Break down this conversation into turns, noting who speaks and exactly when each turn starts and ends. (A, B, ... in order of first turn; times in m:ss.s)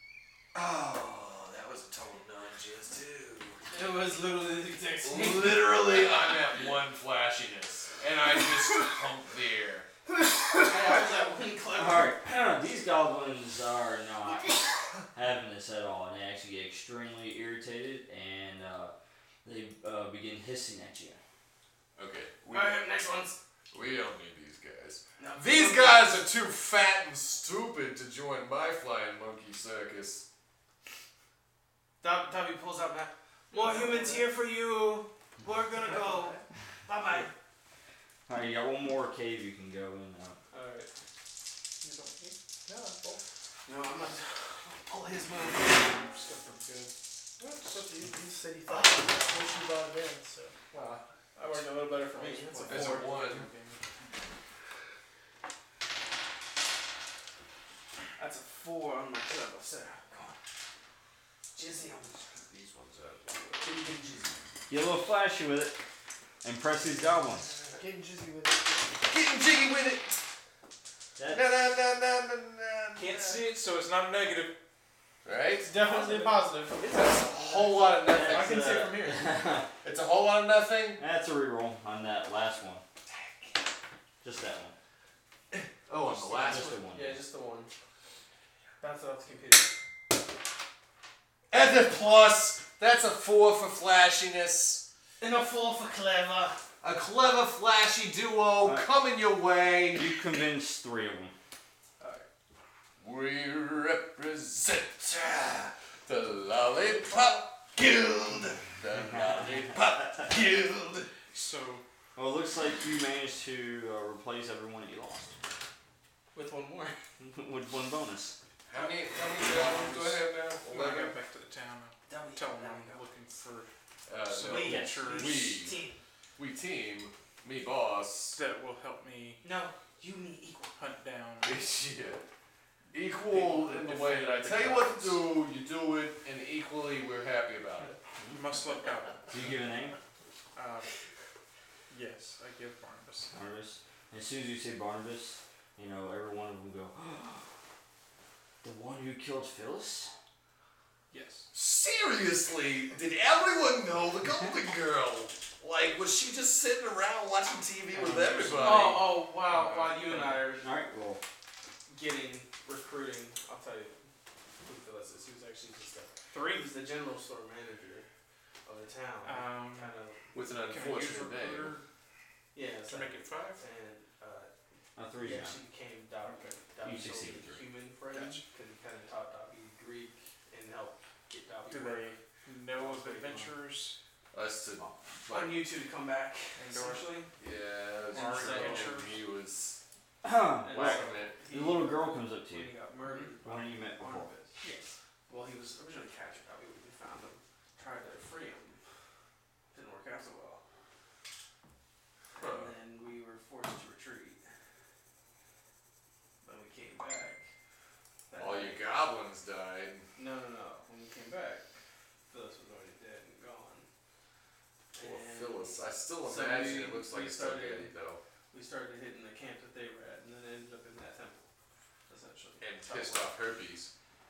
0:00.5-0:03.7 A
0:03.7-0:06.0 B
0:05.0-0:09.9 A
0:10.6-0:12.2 B
0:11.8-0:21.2 C
0:22.0-0:22.9 A
0:22.5-0:23.4 B
0:23.7-0:30.2 A
0:25.2-0:26.2 B
0:32.0-0:37.3 B
0:33.5-0:34.3 D
0:35.9-0:36.4 D
0:38.3-0:40.4 C
0:40.5-0:40.9 B
0:41.8-0:42.4 E
0:42.7-0:43.2 D
0:43.7-0:45.9 B
0:45.6-0:46.9 E
0:47.6-0:48.1 E
0:47.7-0:48.1 D
0:47.7-0:49.1 B
0:48.7-0:50.6 D
0:50.7-0:53.8 E
0:51.4-0:53.1 B
0:52.7-0:53.5 A
0:58.2-1:00.4 B
1:01.6-1:02.2 B
1:02.3-1:03.8 A
1:03.6-1:04.4 B
1:04.7-1:05.8 C
1:06.4-1:07.5 C
1:07.8-1:08.8 D
1:09.0-1:10.2 A
1:11.2-1:11.4 C
1:11.3-1:13.4 A
1:13.0-1:14.5 E
1:15.2-1:15.7 A
1:15.6-1:19.3 B
1:16.0-1:17.3 D
1:16.9-1:18.7 A
1:18.1-1:19.7 C
1:19.8-1:21.0 A
1:21.0-1:22.8 C
1:23.1-1:23.5 A
1:24.2-1:24.8 C
1:25.6-1:26.8 A
1:26.0-1:27.7 B
1:26.3-1:27.2 C
1:28.8-1:29.8 B
1:31.5-1:34.8 A
1:35.2-1:36.6 B
1:36.8-1:40.1 A
1:38.6-1:38.9 C
1:39.9-1:41.3 C
1:42.0-1:42.3 B
1:43.0-1:51.1 A
1:49.1-1:49.6 C
1:51.3-1:51.8 E
1:52.2-1:55.4 C
1:56.3-1:57.0 B
1:57.2-1:58.4 C
1:58.7-2:01.1 A
1:59.6-2:00.1 E
2:00.6-2:03.7 E
2:02.1-2:03.0 B
2:04.1-2:05.8 A
2:04.3-2:05.6 E
2:04.4-2:06.0 B
2:06.4-2:08.4 A
2:08.3-2:09.4 E
2:09.4-2:10.8 B
2:10.8-2:11.6 E
2:11.4-2:12.2 A
2:12.9-2:18.0 A
2:13.3-2:15.2 E
2:18.3-2:19.5 E
2:19.3-2:20.0 C
2:20.6-2:20.9 E
2:21.9-2:23.3 E
2:23.3-2:27.5 C
2:28.6-2:30.1 C
2:31.1-2:31.5 E
2:31.5-2:39.0 A
2:38.0-2:38.9 C
2:38.1-2:40.4 E
2:38.6-2:40.6 B
2:40.5-2:41.2 C
2:41.9-2:44.0 B
2:44.6-2:48.1 B
2:46.3-2:46.7 E
2:48.7-2:50.2 B
2:49.2-2:49.9 E
2:50.3-2:51.8 A
2:50.6-2:51.8 E
2:52.5-2:54.5 B
2:52.9-2:53.6 E
2:55.0-2:55.6 C
2:55.2-3:02.2 B
2:56.8-2:57.6 C
2:58.1-2:58.4 E
3:01.7-3:04.0 E
3:02.8-3:03.6 B
3:04.3-3:05.6 A
3:05.3-3:07.3 B
3:06.6-3:07.1 E
3:07.4-3:09.8 A
3:08.1-3:09.2 E
3:08.1-3:09.0 B
3:10.2-3:12.7 C
3:10.6-3:14.6 B
3:10.7-3:11.4 A
3:13.4-3:14.3 C
3:15.3-3:18.8 B
3:19.7-3:20.6 B
3:22.4-3:22.7 A
3:22.4-3:24.4 B
3:26.4-3:27.4 B
3:28.3-3:28.8 B
3:28.4-3:30.0 A
3:30.2-3:31.7 B
3:32.3-3:33.9 B
3:34.9-3:37.9 B
3:35.0-3:38.2 A
3:38.5-3:41.4 B
3:42.1-3:43.3 B
3:42.6-3:43.9 A